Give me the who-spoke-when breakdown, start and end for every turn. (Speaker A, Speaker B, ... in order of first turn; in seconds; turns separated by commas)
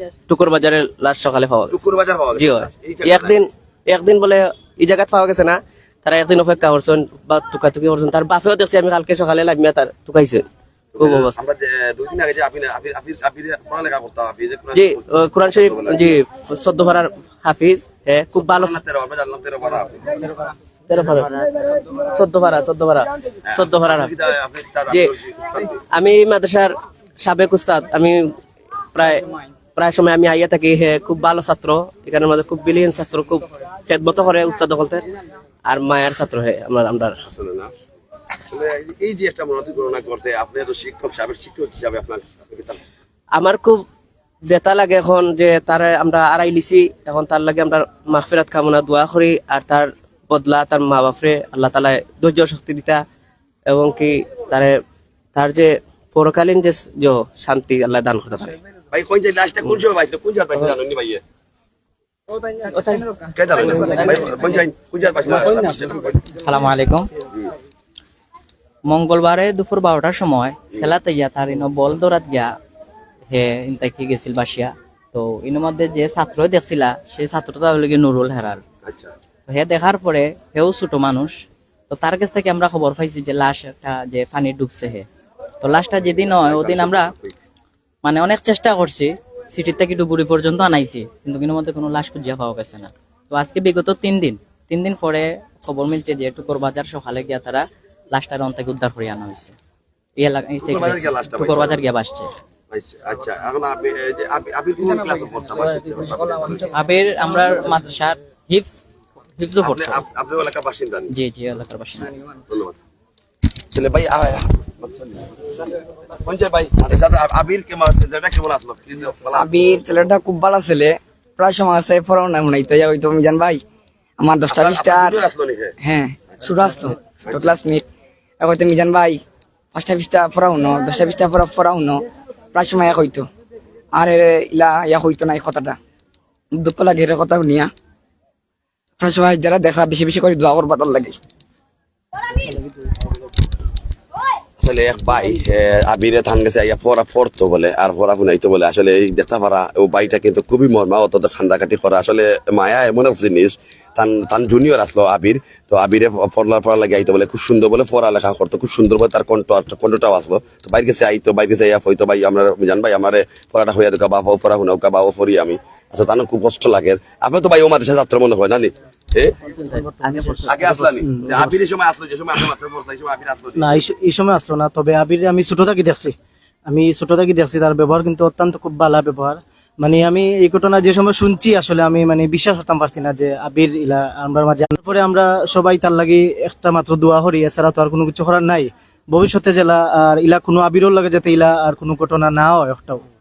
Speaker A: 0.3-1.8, Speaker B: 1.7-3.4, Speaker A: 2.4-10.4, Speaker B: 10.9-16.1, Speaker A: 11.0-11.4, Speaker A: 14.7-18.8, Speaker B: 18.4-20.3, Speaker A: 20.9-24.1, Speaker B: 23.5-25.8, Speaker A: 25.9-28.4, Speaker A: 28.9-35.0, Speaker A: 35.7-37.2, Speaker B: 37.2-37.7, Speaker B: 38.5-42.8, Speaker A: 43.3-43.8, Speaker A: 44.5-53.0, Speaker A: 53.7-54.8, Speaker A: 55.3-58.5, Speaker B: 58.9-61.2, Speaker A: 62.6-64.3, Speaker B: 63.3-66.2, Speaker C: 66.3-67.1, Speaker C: 68.9-72.5, Speaker C: 73.3-78.6, Speaker B: 78.8-79.1, Speaker C: 79.5-81.3, Speaker C: 81.9-85.1, Speaker C: 85.6-87.1, Speaker B: 86.3-87.3, Speaker C: 88.0-99.5, Speaker C: 100.2-102.3, Speaker B: 100.6-101.8, Speaker B: 102.7-106.7, Speaker C: 106.7-108.8, Speaker C: 109.4-110.0, Speaker B: 109.6-111.1, Speaker C: 111.1-112.1, Speaker B: 112.5-112.8, Speaker B: 113.7-119.6, Speaker D: 119.3-123.6, Speaker D: 124.2-125.2, Speaker B: 124.5-125.7, Speaker D: 125.8-127.8, Speaker D: 128.4-129.2, Speaker D: 129.7-132.0, Speaker D: 132.5-133.2, Speaker D: 133.9-135.8, Speaker D: 136.6-137.7, Speaker D: 139.0-141.2, Speaker B: 144.6-169.3, Speaker A: 169.7-170.8, Speaker E: 169.7-171.6, Speaker B: 170.4-173.8, Speaker E: 173.6-176.1, Speaker E: 176.7-193.0